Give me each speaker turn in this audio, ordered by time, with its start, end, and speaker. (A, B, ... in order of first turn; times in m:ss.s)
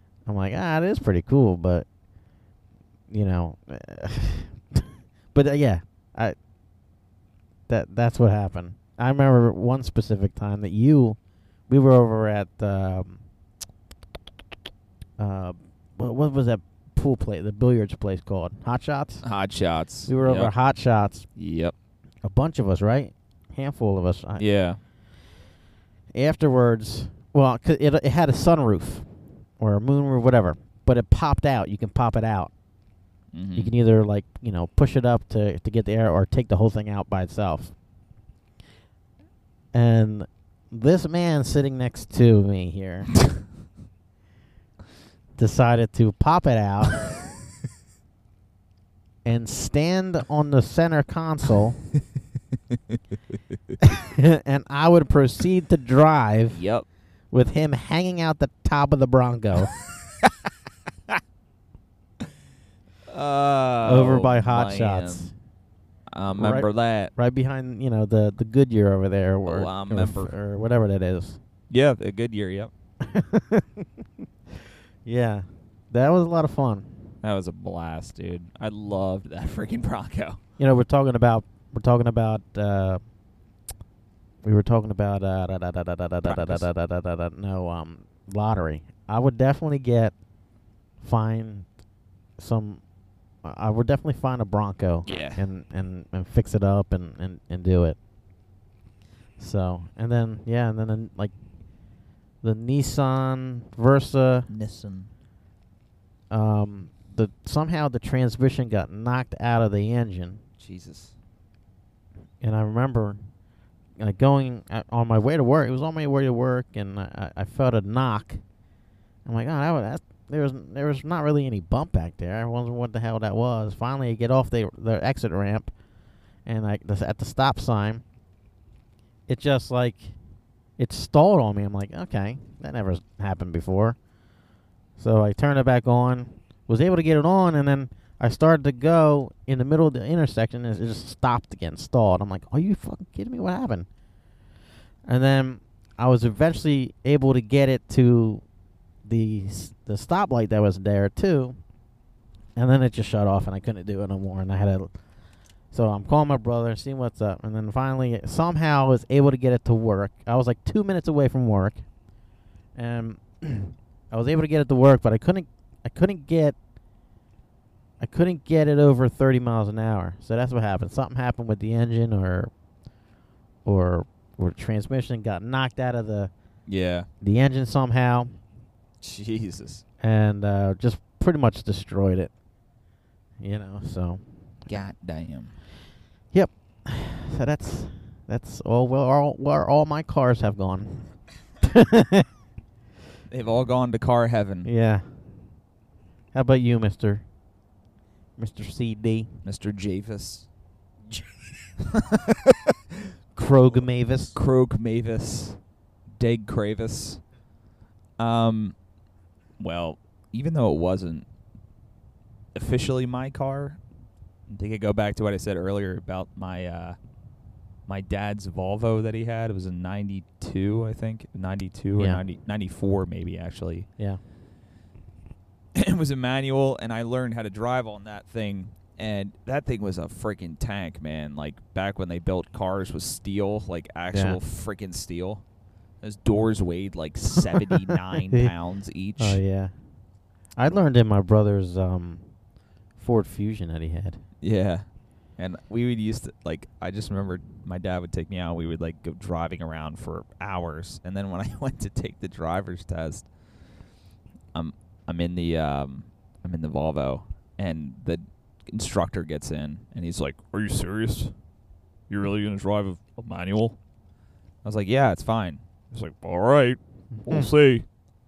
0:00.2-0:01.8 A
0:03.1-0:06.4 A
0:07.7-0:11.2 A
0:11.7-0:13.2 A
0:15.2-0:19.2 A
0:19.2-0:20.5 B
0:20.1-0:21.3 A
0:21.4-0:21.7 B
0:22.2-0:24.4 A
0:24.4-0:24.8 B
0:26.1-0:29.1 A
0:29.6-0:32.5 A
0:33.3-0:33.7 B
0:33.6-0:37.7 A
0:39.7-0:43.1 A
0:45.4-0:47.0 A
0:49.2-0:51.8 A
0:53.8-0:56.6 A
0:56.5-0:56.8 B
0:57.3-0:59.7 A
1:03.1-1:05.3 B
1:03.8-1:05.3 A
1:06.1-1:07.1 B
1:06.3-1:11.4 A
1:09.4-1:10.3 B
1:11.7-1:12.7 B
1:13.0-1:13.9 A
1:15.0-1:17.1 A
1:17.2-1:20.4 B
1:20.6-1:23.0 A
1:24.4-1:30.1 A
1:26.2-1:26.7 B
1:31.0-1:31.7 A
1:32.4-1:32.8 A
1:33.4-1:38.0 A
1:35.0-1:35.4 B
1:39.4-1:41.3 A
1:42.4-1:44.5 A
1:44.5-1:45.1 B
1:46.3-1:50.4 A
1:50.6-1:51.1 B
1:52.4-1:53.2 A
1:54.0-1:58.4 A
1:59.2-2:05.7 A
2:06.4-2:08.0 A
2:09.3-2:10.1 A
2:10.8-2:14.0 A
2:15.0-2:23.9 A
2:25.0-2:28.4 A
2:29.0-2:31.6 A
2:32.6-2:34.9 A
2:35.7-2:41.8 A
2:42.8-2:46.6 A
2:48.0-2:52.5 A
2:53.6-2:56.3 A
2:56.6-2:57.1 B
2:57.2-2:58.3 A
2:59.0-2:59.8 B
3:00.0-3:02.3 A
3:03.4-3:04.2 A
3:04.7-3:05.6 B
3:06.3-3:12.3 A
3:13.3-3:14.7 B
3:14.6-3:15.3 A
3:16.3-3:17.2 A
3:18.4-3:19.3 A
3:19.4-3:20.5 B
3:21.1-3:23.0 B
3:23.4-3:24.4 A
3:24.3-3:25.6 B
3:26.2-3:27.2 B
3:28.2-3:28.7 B
3:29.6-3:31.2 B
3:32.5-3:33.8 B
3:34.5-3:37.0 B
3:37.9-3:43.9 B
3:42.0-3:42.2 A
3:45.7-3:55.4 B
3:54.1-3:54.4 A
3:56.0-3:59.4 B
3:59.2-3:59.7 A
4:00.6-4:02.2 A
4:03.0-4:04.2 A
4:04.4-4:04.8 B
4:05.4-4:13.3 B
4:14.5-4:21.3 B
4:22.1-4:23.8 B
4:24.6-4:27.8 B
4:27.1-4:27.5 A